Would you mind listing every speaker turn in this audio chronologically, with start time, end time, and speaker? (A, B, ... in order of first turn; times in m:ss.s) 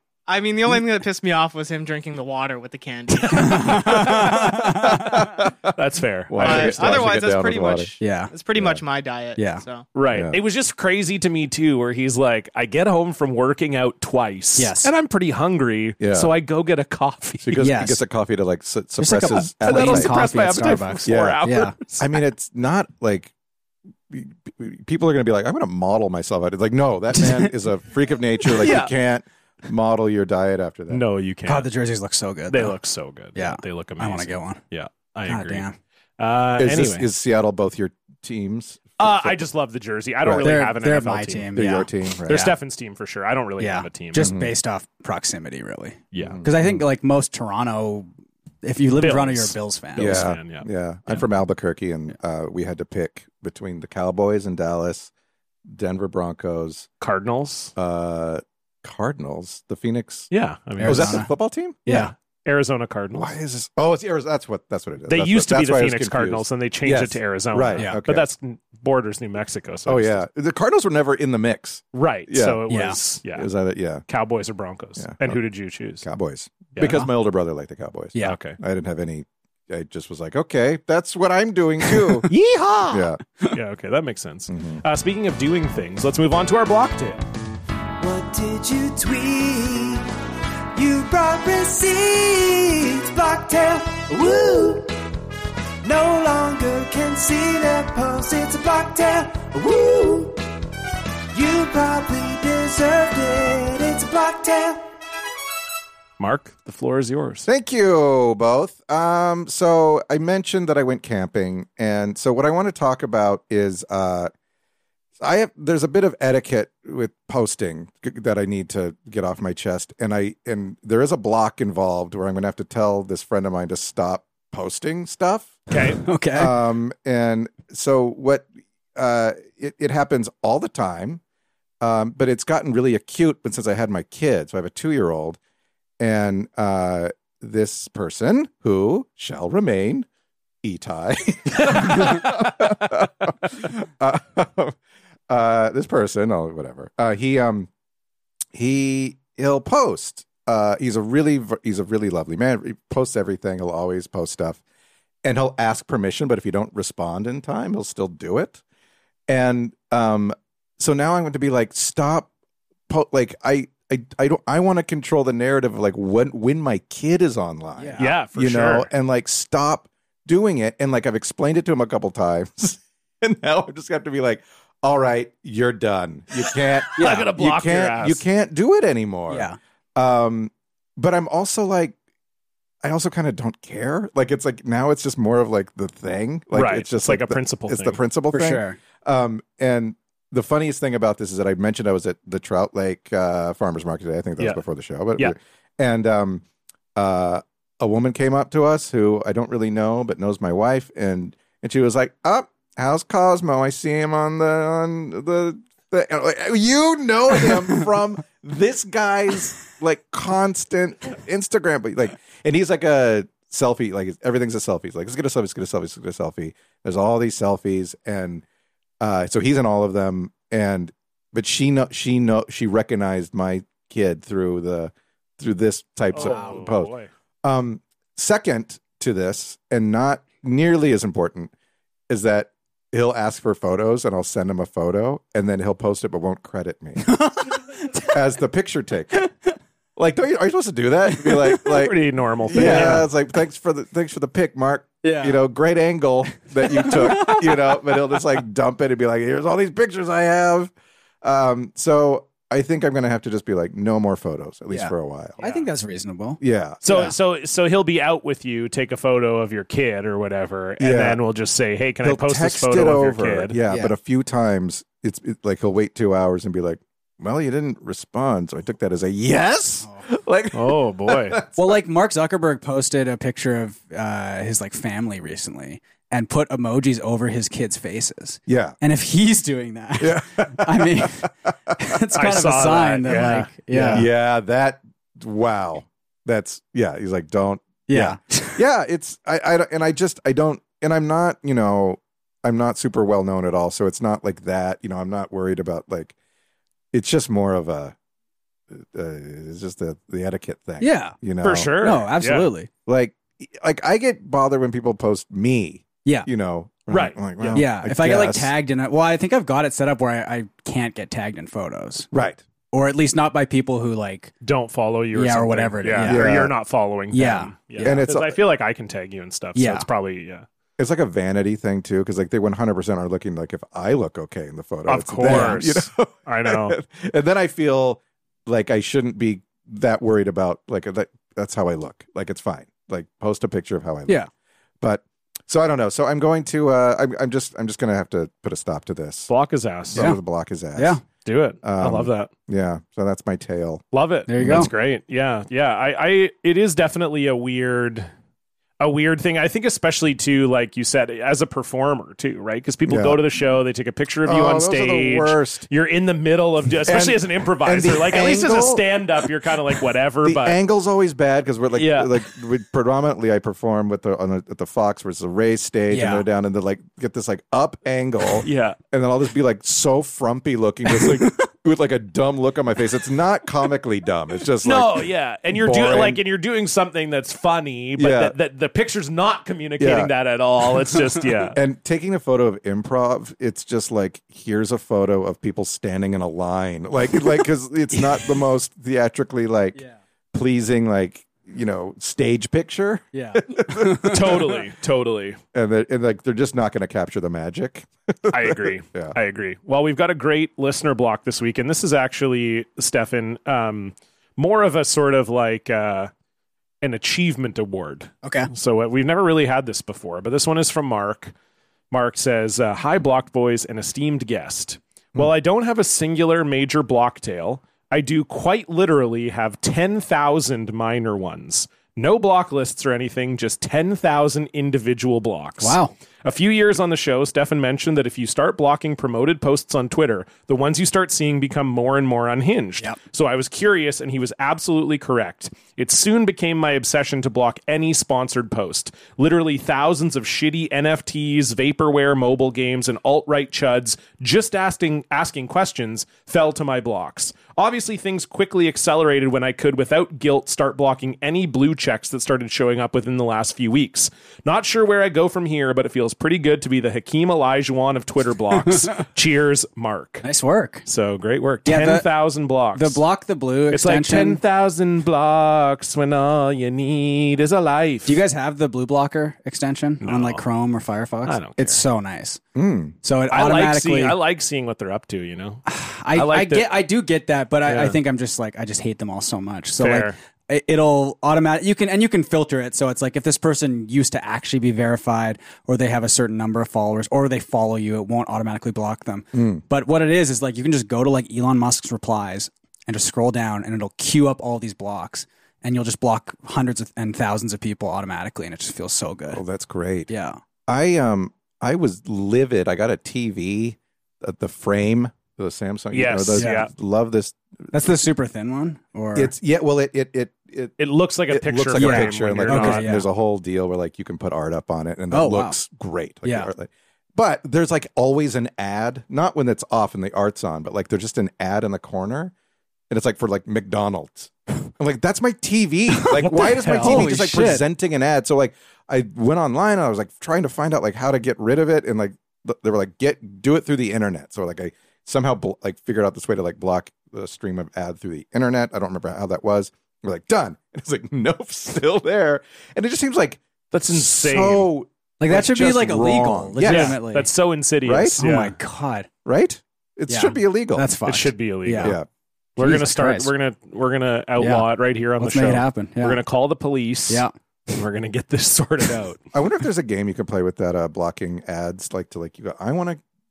0:00.3-0:03.8 A
0:03.2-0:04.5 B
0:03.3-0:05.2 C
0:04.9-0:05.5 D
0:05.7-0:07.2 B
0:06.3-0:07.9 D
0:06.4-0:09.8 A
0:08.0-0:08.3 C
0:08.5-0:08.8 D
0:09.4-0:09.6 C
0:09.9-0:17.6 B
0:10.1-0:10.4 D
0:14.6-0:14.9 C
0:16.0-0:16.3 D
0:17.4-0:20.3 D
0:17.6-0:18.0 C
0:19.0-0:21.7 C
0:19.3-0:22.2 B
0:21.0-0:21.5 D
0:22.0-0:23.3 D
0:24.1-0:31.0 D
0:27.1-0:27.5 C
0:28.6-0:28.9 B
0:30.9-0:31.7 B
0:31.4-0:32.8 C
0:32.5-0:35.6 B
0:33.3-0:34.6 C
0:35.3-0:35.7 C
0:36.2-0:37.1 B
0:36.6-0:39.4 D
0:39.0-0:41.5 B
0:40.2-0:40.5 D
0:40.4-0:42.5 C
0:41.5-0:42.5 D
0:42.3-0:44.3 B
0:43.6-0:48.1 C
0:44.2-0:44.5 D
0:46.1-0:46.4 B
0:46.2-0:46.8 D
0:48.6-0:50.2 C
0:49.0-0:51.2 B
0:50.0-0:55.1 D
0:55.6-0:56.9 D
0:57.0-0:57.7 B
0:57.8-1:00.3 D
1:00.3-1:01.3 B
1:00.8-1:01.3 C
1:00.8-1:01.9 D
1:01.8-1:02.1 C
1:01.9-1:03.3 B
1:03.1-1:08.3 D
1:05.1-1:10.2 B
1:09.8-1:12.6 D
1:11.9-1:13.5 B
1:12.7-1:13.0 C
1:13.3-1:14.0 D
1:14.1-1:16.1 B
1:15.0-1:15.4 D
1:16.0-1:22.3 D
1:16.7-1:17.1 B
1:18.2-1:18.6 B
1:22.3-1:27.2 B
1:22.9-1:23.2 D
1:24.5-1:24.8 D
1:28.0-1:30.0 E
1:30.7-1:35.0 E
1:35.8-1:40.4 E
1:41.3-1:44.9 E
1:46.2-1:47.5 B
1:47.4-1:54.3 D
1:55.2-2:05.7 D
2:05.7-2:06.0 B
2:06.0-2:06.6 C
2:06.3-2:11.2 D
2:11.8-2:15.4 D
2:16.0-2:20.1 D
2:20.6-2:24.8 D
2:25.3-2:27.7 D
2:28.5-2:34.6 D
2:35.2-2:38.6 D
2:39.3-2:42.3 D
2:42.9-3:01.9 D
2:47.8-2:48.1 C
2:48.0-2:48.9 B
2:57.0-2:58.2 B
2:57.0-2:57.2 C
2:59.3-2:59.6 C
3:02.8-3:16.4 D
3:06.5-3:08.0 B
3:08.3-3:08.8 C
3:17.0-3:38.4 D
3:39.0-3:46.9 D
3:46.1-3:47.1 B
3:46.1-3:46.6 C
3:47.4-3:51.5 D
3:52.1-3:57.2 D
3:57.0-3:58.1 C
3:58.1-3:59.3 D
4:00.0-4:10.7 D
4:01.6-4:03.1 B
4:02.5-4:03.0 C
4:05.0-4:05.4 C
4:06.8-4:07.5 C
4:11.2-4:15.5 D
4:14.7-4:17.1 C
4:16.4-4:16.8 D
4:16.8-4:23.6 B
4:20.8-4:21.2 D
4:22.0-4:31.8 D
4:23.7-4:23.9 C
4:30.5-4:31.4 B
4:31.6-4:44.1 C
4:38.5-4:38.8 D
4:40.0-4:41.8 D
4:42.2-4:44.1 B
4:43.9-4:56.1 D
4:47.9-4:48.6 C
4:56.9-4:57.9 D
4:58.7-5:01.8 D
5:00.8-5:01.1 C
5:01.4-5:02.5 B
5:01.8-5:02.7 C
5:02.8-5:08.5 D
5:06.9-5:07.6 B
5:07.5-5:12.1 C
5:12.1-5:12.4 D
5:12.7-5:14.3 C
5:14.4-5:20.4 B
5:15.1-5:16.3 C
5:16.0-5:16.5 D
5:17.1-5:18.0 C
5:17.8-5:18.4 D
5:19.6-5:19.8 C
5:20.8-5:34.2 D
5:24.9-5:26.8 B
5:25.2-5:25.6 C
5:34.8-5:39.3 D
5:39.3-5:40.1 B
5:39.9-5:41.0 D
5:40.8-5:41.0 C
5:41.2-5:42.3 B
5:41.6-5:43.8 D
5:43.9-5:48.1 B
5:44.3-5:44.7 C
5:44.4-5:44.7 D
5:48.8-6:00.6 B
5:52.9-5:53.2 D
5:54.2-5:55.6 D
5:56.8-5:58.8 D
6:00.2-6:16.2 D
6:01.7-6:02.1 B
6:05.9-6:06.2 C
6:08.4-6:08.8 B
6:14.6-6:21.6 B
6:18.0-6:18.3 D
6:19.8-6:20.1 D
6:21.5-6:29.8 D
6:30.3-6:34.5 D
6:33.1-6:34.4 C
6:34.0-6:35.4 B
6:35.5-6:39.2 D
6:38.3-6:46.1 B
6:46.8-6:51.3 B
6:48.2-6:48.5 C
6:51.9-7:40.2 B
7:05.6-7:05.9 C
7:40.2-7:40.8 C
7:40.8-7:43.0 B
7:41.6-7:42.1 C
7:42.7-7:44.4 C
7:43.7-7:48.2 B
7:48.0-7:52.4 C
7:50.0-7:50.4 B
7:51.2-7:51.8 B
7:52.5-7:53.0 D
7:53.0-7:54.2 C
7:53.3-7:56.8 B
7:55.6-8:19.4 C
7:57.6-7:58.0 B
7:59.8-8:00.1 B
8:09.3-8:09.6 D
8:19.3-8:20.1 D
8:20.1-8:20.4 C
8:20.7-8:27.4 D
8:25.9-8:26.7 B
8:26.4-8:26.6 C
8:27.7-8:29.3 C
8:29.1-8:30.7 D
8:30.8-8:32.9 B
8:31.3-8:42.3 D
8:31.7-8:33.0 C
8:35.1-8:35.6 C
8:36.2-8:36.5 C
8:42.9-9:07.0 D
8:46.0-8:47.6 C
8:46.4-8:47.1 B
9:03.7-9:04.7 B
9:05.2-9:07.3 C
9:06.6-9:08.5 B
9:07.8-9:08.2 D
9:08.2-9:09.1 C
9:09.2-9:10.8 D
9:10.1-9:12.0 C
9:11.0-9:12.0 B
9:11.8-9:12.1 D
9:12.6-9:19.2 B
9:12.6-9:13.3 C
9:14.4-9:14.6 C
9:15.2-9:16.2 C
9:19.3-9:23.0 D